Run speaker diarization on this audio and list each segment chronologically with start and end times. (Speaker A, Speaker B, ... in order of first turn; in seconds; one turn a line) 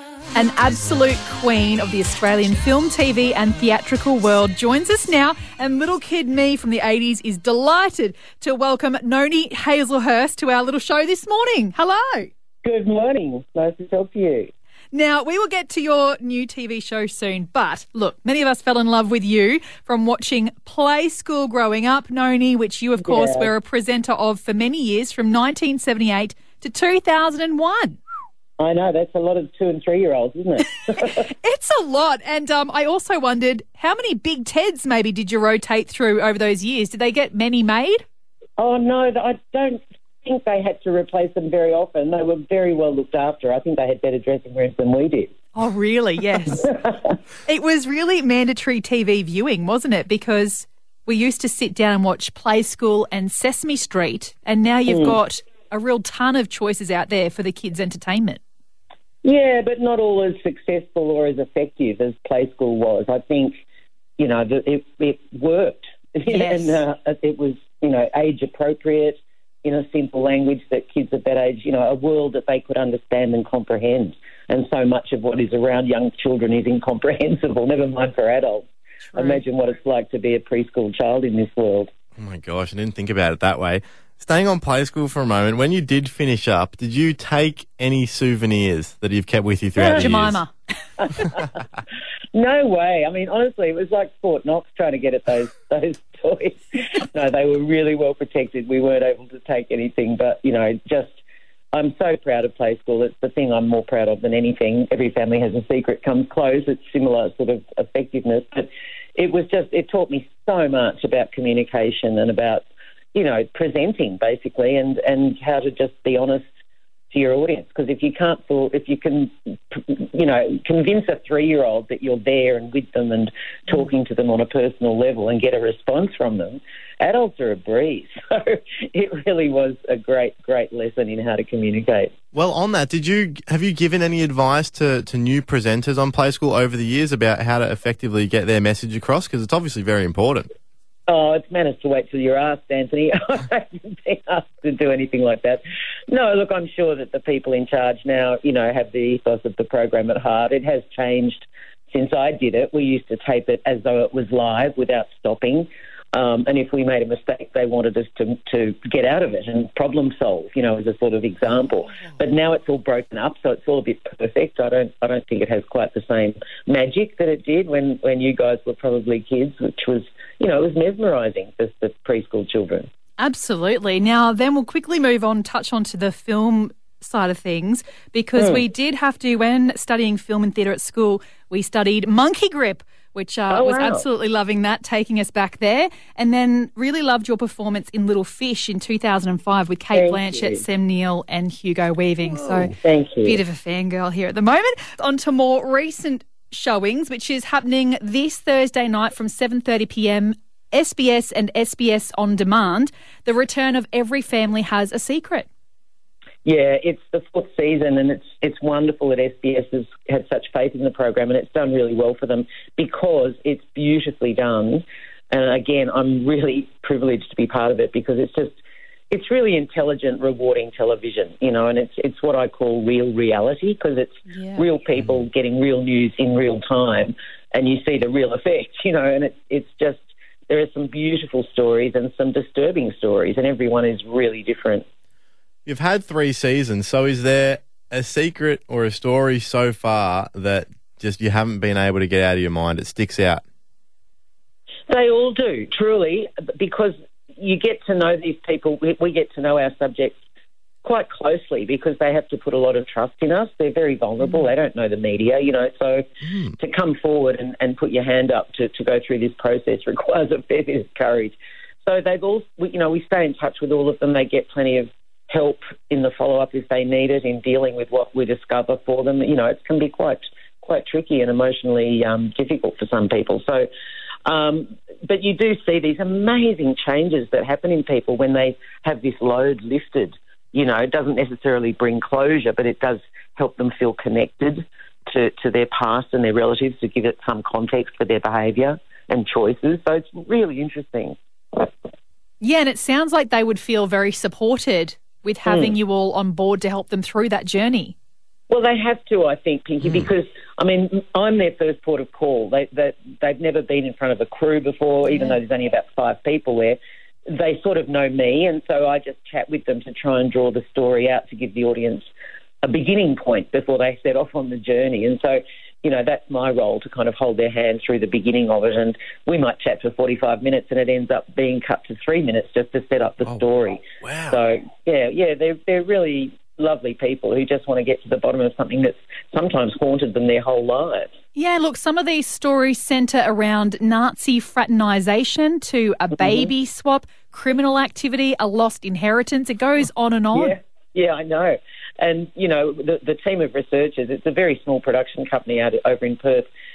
Speaker A: 0.3-12.3
Speaker B: 12.6-14.5
Speaker A: 14.9-28.0
Speaker B: 23.0-23.5
Speaker B: 28.6-31.2
Speaker A: 30.9-38.0
Speaker B: 38.6-45.3
Speaker A: 45.5-46.8
Speaker B: 46.5-47.0
Speaker A: 47.5-58.4
Speaker B: 54.9-55.2
Speaker B: 59.2-63.6
Speaker B: 64.2-81.9
Speaker A: 66.3-66.8
Speaker A: 79.0-79.4
Speaker C: 82.2-90.4
Speaker B: 89.8-90.4
Speaker A: 90.0-90.5
Speaker B: 91.0-91.6
Speaker B: 92.3-101.2
Speaker B: 101.7-116.4
Speaker B: 117.1-132.1
Speaker C: 132.3-140.5
Speaker B: 141.1-172.9
Speaker A: 173.2-205.5
Speaker B: 178.4-178.6
Speaker B: 183.5-184.0
Speaker B: 189.9-190.6
Speaker B: 192.8-193.4
Speaker B: 206.4-218.5
Speaker B: 219.1-234.8
Speaker C: 235.7-243.4
Speaker B: 244.9-250.2
Speaker B: 250.8-256.0
Speaker C: 256.2-256.5
Speaker B: 256.6-273.7
Speaker B: 274.2-291.7
Speaker A: 292.4-297.9
Speaker B: 295.4-295.7
Speaker B: 298.5-312.1
Speaker A: 305.1-305.4
Speaker B: 312.6-331.1
Speaker C: 324.0-324.4
Speaker A: 331.3-340.6
Speaker B: 336.2-336.5
Speaker B: 340.3-346.5